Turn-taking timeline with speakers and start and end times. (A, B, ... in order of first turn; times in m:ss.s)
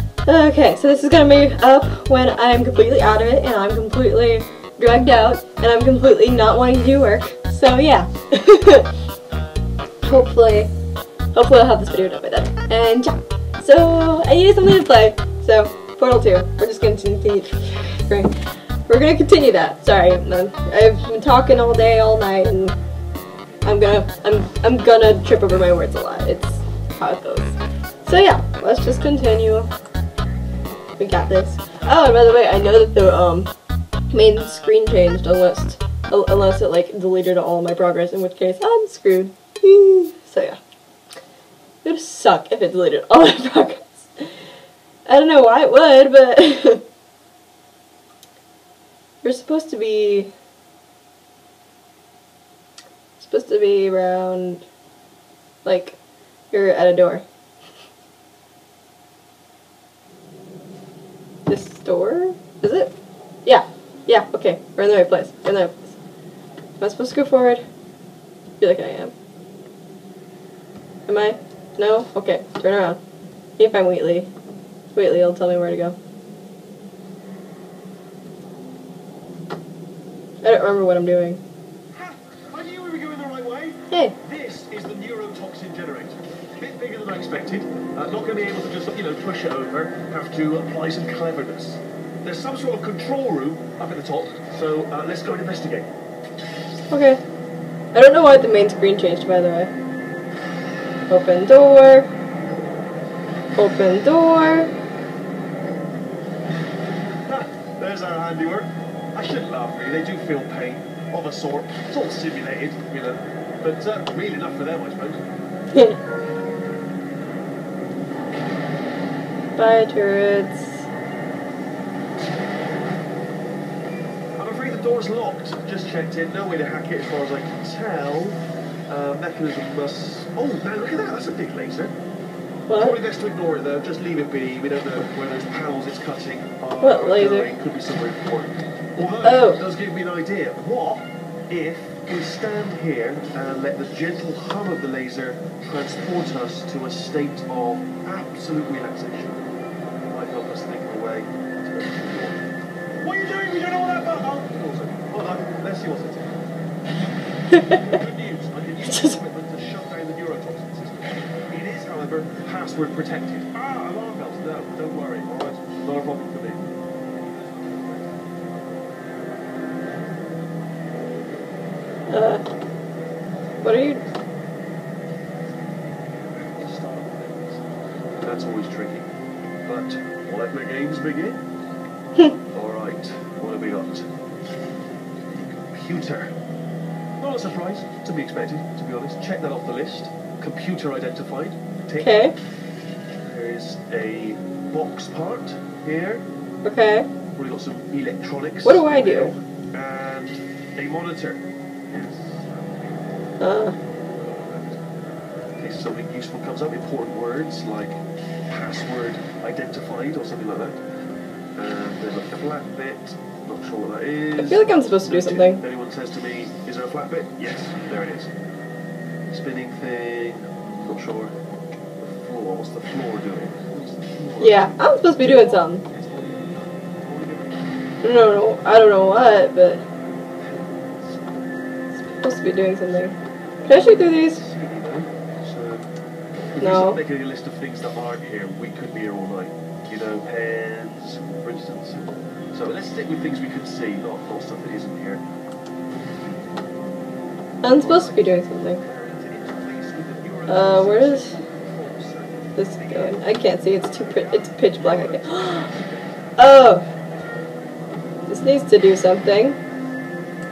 0:00.2-0:08.9 A
0:10.0-0:10.7 A
0:11.3-0:18.3 A
0:18.9-0:22.8 A
0:23.6-0:29.7 A
0:31.0-0:33.5 A
0:34.1-0:40.6 A
0:41.8-0:44.3 A
0:45.1-0:46.8 A
0:49.2-0:50.3 A
0:53.2-0:54.6 A
0:55.6-0:56.0 A
0:56.5-0:57.2 A
1:01.5-1:02.9 A
1:03.4-1:05.9 A
1:06.8-1:07.6 A
1:08.6-1:09.1 A
1:11.1-1:13.0 A
1:13.6-1:14.3 A
1:14.9-1:16.0 A
1:20.4-1:21.4 A
1:21.9-1:35.9 B
1:36.9-1:37.2 A
1:37.9-1:39.7 A
1:41.1-1:42.1 A
1:43.6-1:44.7 A
1:47.3-1:55.2 B
1:59.6-2:00.8 A
2:04.4-2:08.4 B
2:08.9-2:11.9 B
2:12.7-2:13.0 A
2:12.8-2:29.4 B
2:16.8-2:17.5 A
2:19.2-2:19.6 A
2:30.1-2:32.4 B
2:33.0-2:36.4 B
2:37.5-2:37.8 A
2:37.6-2:49.1 B
2:38.8-2:39.2 A
2:52.1-2:52.4 A
2:53.6-2:54.0 A
2:56.1-2:57.6 B
2:58.2-2:59.1 B
2:59.6-3:01.4 B
3:02.5-3:04.1 B
3:05.3-3:06.3 B
3:07.2-3:12.2 B
3:12.0-3:12.3 A
3:13.2-3:16.2 B
3:16.6-3:17.1 A
3:17.3-3:23.0 B
3:18.6-3:19.3 A
3:23.4-3:23.8 A
3:24.1-3:25.0 B
3:25.6-3:30.8 B
3:31.6-3:38.3 B
3:34.4-3:35.6 A
3:39.3-3:41.3 B
3:42.0-3:48.1 B
3:44.4-3:45.8 A
3:48.0-3:49.8 A
3:50.3-3:51.4 B
3:52.1-3:53.1 A
3:53.6-3:54.4 A
3:53.7-3:55.9 B
3:56.5-4:05.2 B
3:56.6-3:57.0 A
4:07.6-4:08.8 A
4:07.6-4:16.6 B
4:10.5-4:11.3 A
4:12.6-4:15.7 A
4:16.4-4:16.8 A
4:17.1-4:17.8 B
4:18.3-4:19.6 A